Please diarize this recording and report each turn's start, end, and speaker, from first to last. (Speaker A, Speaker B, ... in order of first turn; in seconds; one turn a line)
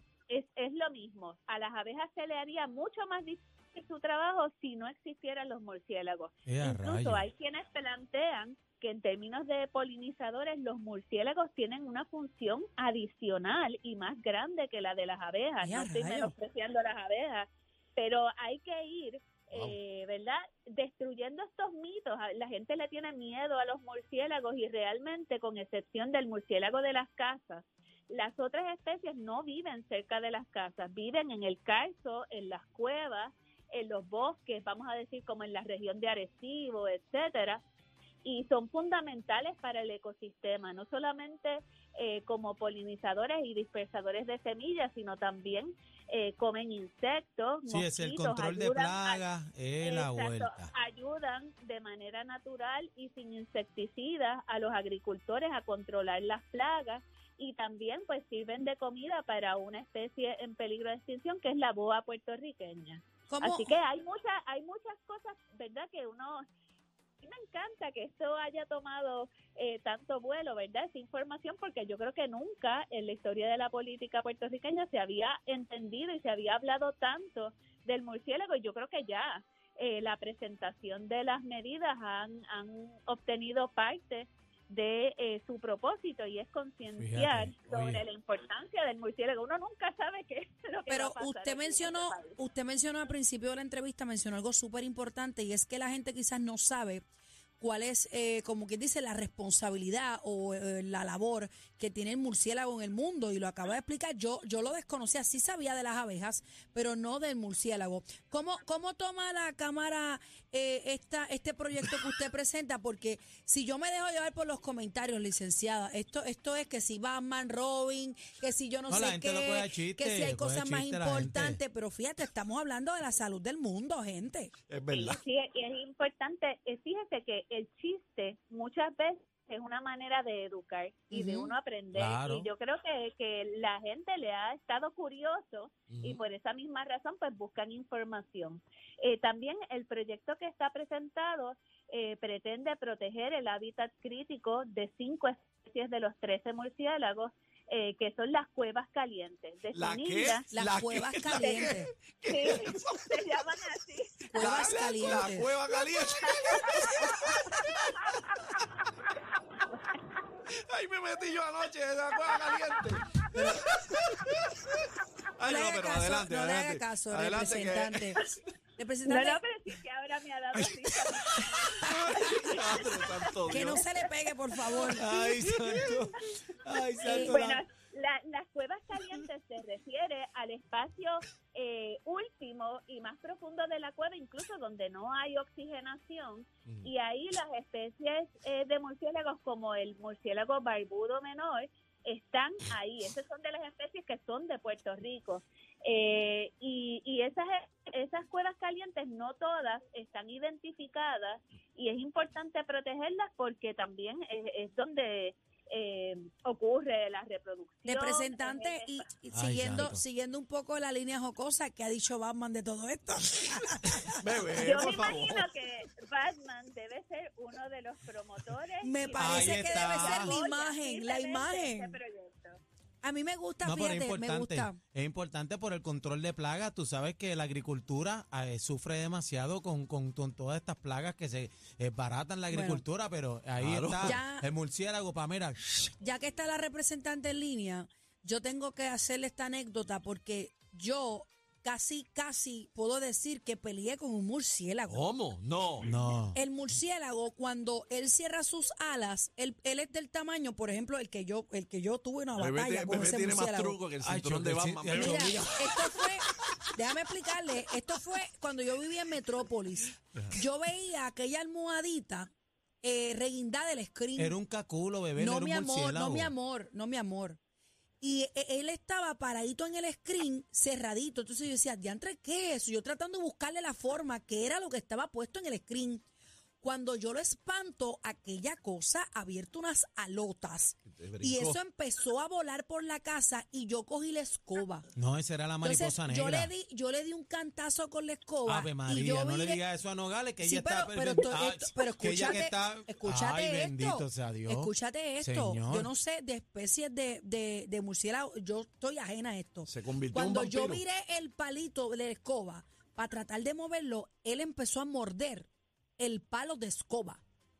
Speaker A: 0.3-37.6
Speaker B: 6.5-7.3
Speaker C: 15.6-16.3
Speaker A: 38.2-49.2
Speaker B: 47.7-50.7
Speaker A: 49.8-66.4
Speaker C: 63.3-63.8
Speaker A: 67.2-92.3
Speaker B: 87.0-88.0
Speaker C: 90.9-97.0
Speaker C: 97.6-124.5
Speaker B: 118.9-121.6
Speaker D: 124.7-125.2
Speaker A: 124.9-150.4
Speaker C: 131.1-131.5
Speaker B: 131.9-132.5
Speaker D: 135.9-136.2
Speaker D: 149.7-153.2
Speaker C: 150.5-151.9
Speaker A: 151.4-151.7
Speaker A: 152.3-155.1
Speaker C: 154.3-155.5
Speaker D: 154.4-157.9
Speaker A: 156.3-156.9
Speaker A: 159.7-160.0
Speaker D: 160.5-164.7
Speaker A: 162.3-162.6
Speaker C: 163.3-163.7
Speaker D: 165.3-168.2
Speaker C: 165.4-168.2
Speaker C: 168.8-169.4
Speaker A: 169.0-174.0
Speaker D: 171.8-173.8
Speaker C: 173.5-175.1
Speaker A: 174.7-174.9
Speaker B: 174.8-177.6
Speaker D: 175.3-175.9
Speaker A: 177.0-209.0
Speaker C: 177.0-177.4
Speaker C: 207.8-214.2
Speaker B: 209.3-210.0
Speaker D: 214.2-215.4
Speaker A: 214.6-222.6
Speaker C: 218.8-222.0
Speaker B: 219.2-220.4
Speaker C: 223.0-224.8
Speaker B: 223.6-235.8
Speaker C: 232.5-232.8
Speaker D: 233.6-234.2
Speaker C: 234.0-234.5
Speaker C: 236.0-245.0
Speaker D: 244.9-245.9
Speaker B: 245.8-246.4
Speaker C: 246.3-253.8
Speaker D: 252.4-255.4
Speaker B: 254.0-255.7
Speaker C: 254.9-262.3
Speaker C: 262.8-264.4
Speaker B: 264.2-266.3
Speaker C: 265.1-267.4
Speaker C: 268.0-276.0
Speaker C: 276.6-284.9
Speaker D: 280.9-281.6
Speaker B: 284.9-286.5
Speaker C: 285.6-289.6
Speaker B: 288.5-295.9
Speaker C: 290.4-305.5
Speaker D: 299.6-300.8
Speaker C: 306.0-307.2